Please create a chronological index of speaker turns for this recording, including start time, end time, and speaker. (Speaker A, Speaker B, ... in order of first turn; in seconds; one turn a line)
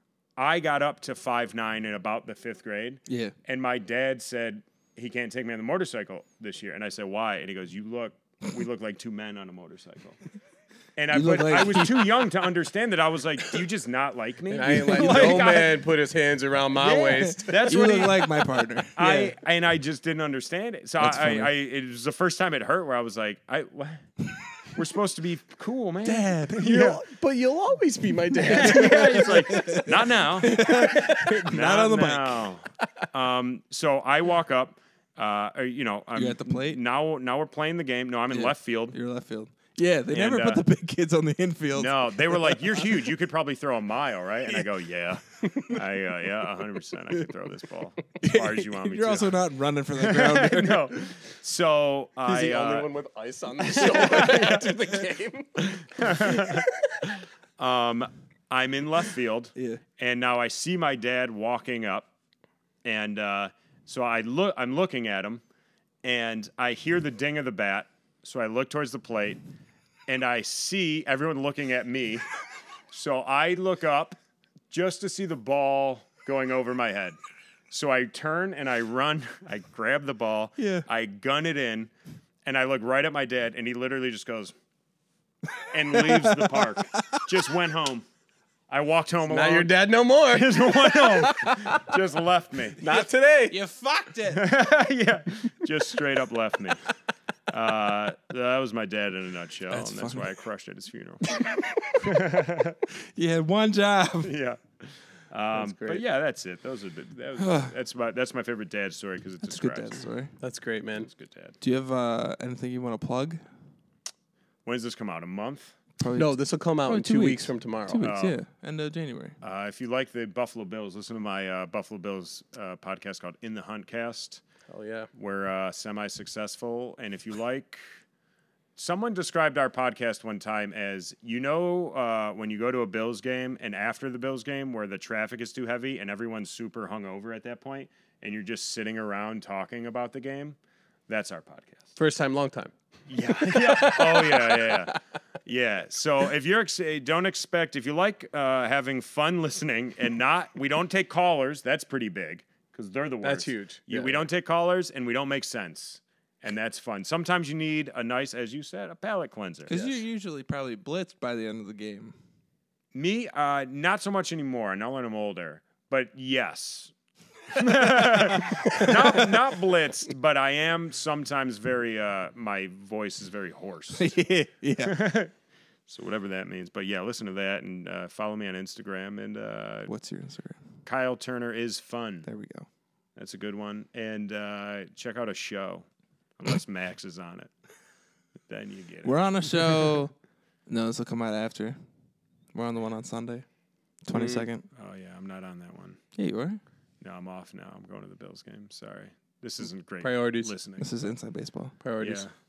Speaker A: 0.4-10.2
Speaker B: 3.1-3.3
Speaker A: 11.0-15.8
Speaker B: 11.1-12.3
Speaker C: 14.5-17.7
Speaker B: 14.8-15.3
Speaker A: 16.8-18.4
Speaker B: 17.2-19.3
Speaker A: 19.0-24.1
Speaker B: 21.0-21.5
Speaker A: 24.7-27.0
Speaker B: 26.0-26.8
Speaker C: 26.6-29.6
Speaker A: 28.5-39.0
Speaker B: 28.5-32.5
Speaker B: 36.1-36.8
Speaker B: 38.3-42.6
Speaker A: 40.1-40.6
Speaker A: 41.8-49.4
Speaker B: 48.2-51.0
Speaker A: 50.0-52.9
Speaker C: 52.3-57.1
Speaker A: 53.6-54.7
Speaker A: 55.6-56.7
Speaker A: 57.6-62.1
Speaker B: 59.6-59.8
Speaker A: 62.9-65.4
Speaker A: 66.0-69.4
Speaker A: 70.1-72.3
Speaker A: 72.9-74.2
Speaker A: 74.7-77.2
Speaker A: 77.7-81.9
Speaker B: 80.6-80.9
Speaker A: 82.5-84.5
Speaker B: 85.5-87.3
Speaker A: 85.7-88.1
Speaker A: 88.7-89.7
Speaker C: 89.3-91.8
Speaker A: 90.3-92.8
Speaker C: 92.8-93.6
Speaker B: 93.5-94.5
Speaker A: 94.3-96.8
Speaker A: 97.5-101.3
Speaker B: 99.7-100.3
Speaker B: 101.2-102.1
Speaker A: 101.9-102.8
Speaker B: 103.0-104.3
Speaker A: 104.2-110.0
Speaker C: 105.5-106.0
Speaker B: 107.4-107.8
Speaker B: 109.4-110.3
Speaker C: 110.4-111.1
Speaker A: 111.0-111.6
Speaker B: 111.6-113.4
Speaker A: 114.7-115.8
Speaker B: 116.0-119.4
Speaker C: 116.2-118.1
Speaker A: 118.0-118.4
Speaker A: 119.4-124.4
Speaker C: 124.7-125.1
Speaker A: 125.1-127.8
Speaker A: 128.8-140.6
Speaker A: 141.1-141.9
Speaker C: 142.0-144.8
Speaker A: 143.1-160.0
Speaker C: 153.2-154.3
Speaker B: 159.7-162.2
Speaker A: 162.9-166.9
Speaker A: 167.5-174.2
Speaker B: 167.6-169.1
Speaker B: 174.0-175.0
Speaker A: 174.8-175.3
Speaker A: 175.9-179.9
Speaker B: 179.9-180.7
Speaker A: 180.8-182.3
Speaker B: 182.2-182.7
Speaker A: 183.2-185.9
Speaker A: 186.4-187.5
Speaker A: 188.5-190.0
Speaker B: 189.0-190.1
Speaker B: 190.7-191.8
Speaker B: 192.5-193.4
Speaker B: 194.0-194.7
Speaker A: 194.1-196.0
Speaker B: 196.2-196.6
Speaker A: 197.0-201.1
Speaker C: 200.0-200.5
Speaker B: 200.8-201.8
Speaker C: 201.8-202.3
Speaker A: 202.0-202.3